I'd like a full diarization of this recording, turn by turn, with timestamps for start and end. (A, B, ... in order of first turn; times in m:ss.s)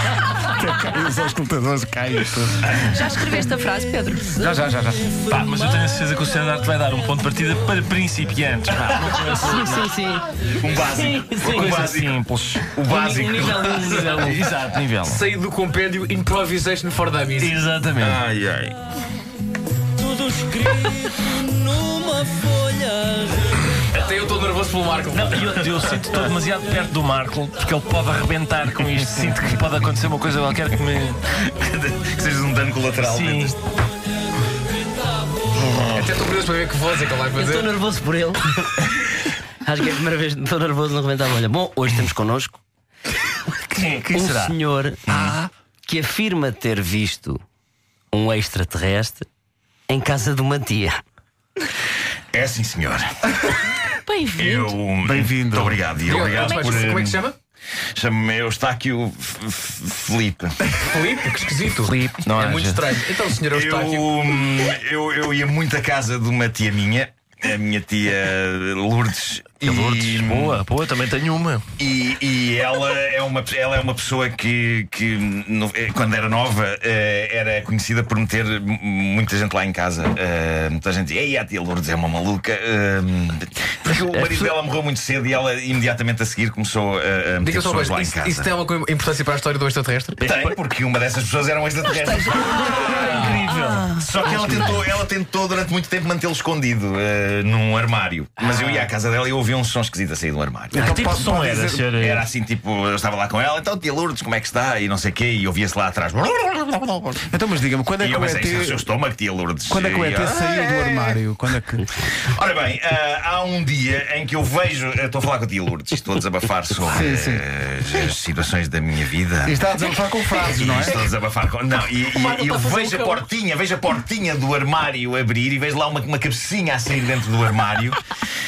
0:00.4-0:02.8 A
0:02.6-0:03.0 B
0:02.9-0:04.3 C
0:04.3-0:05.1 A
0:05.3-0:05.8 D
0:05.3-0:09.9 E
0:08.7-0:09.2 B
0:09.4-0:10.4 D
0:10.4-0:12.2 B
0:10.9-0:11.7 D
0:11.0-0:12.7 E
0:12.7-0:13.8 B
0:12.8-0:14.4 D
0:13.7-0:15.2 E
0:15.0-0:17.6 F
0:17.4-0:18.2 E
0:18.0-0:18.7 B
0:20.0-0:23.4 D
0:23.9-0:25.6 F
0:25.1-0:31.2 E
0:25.5-0:26.0 B
0:31.4-0:33.6 B
0:33.0-0:33.6 E
0:35.9-0:37.7 F
0:37.3-0:38.9 D
0:39.6-0:42.6 D
0:43.6-0:44.6 E
0:44.1-0:45.1 D
0:45.1-0:45.4 B
0:45.1-0:45.5 E
0:45.8-0:47.4 D
0:48.1-0:49.2 D
0:49.9-0:50.9 D
0:52.3-0:53.3 B
0:54.1-0:54.7 C
0:54.3-0:57.2 B
0:55.0-0:55.8 A
0:56.0-0:57.4 F
0:56.4-0:56.8 C
0:58.0-1:00.6 B
1:00.8-1:04.3 F
1:01.8-1:02.8 E
1:03.5-1:10.6 B
1:09.6-1:11.6 E
1:11.8-1:28.5 B
1:23.9-1:24.5 D
1:27.4-1:30.5 F
1:30.2-1:41.2 B
1:32.8-1:34.0 E
1:33.5-1:34.6 D
1:40.7-1:41.8 A
1:40.7-1:42.2 E
1:41.9-1:47.2 B
1:47.3-1:48.8 A
1:48.0-1:51.2 B
1:49.7-1:51.9 A
1:52.1-1:59.6 B
1:56.8-1:58.0 A
1:59.4-2:01.0 A
2:00.3-2:08.0 B
2:02.1-2:03.2 F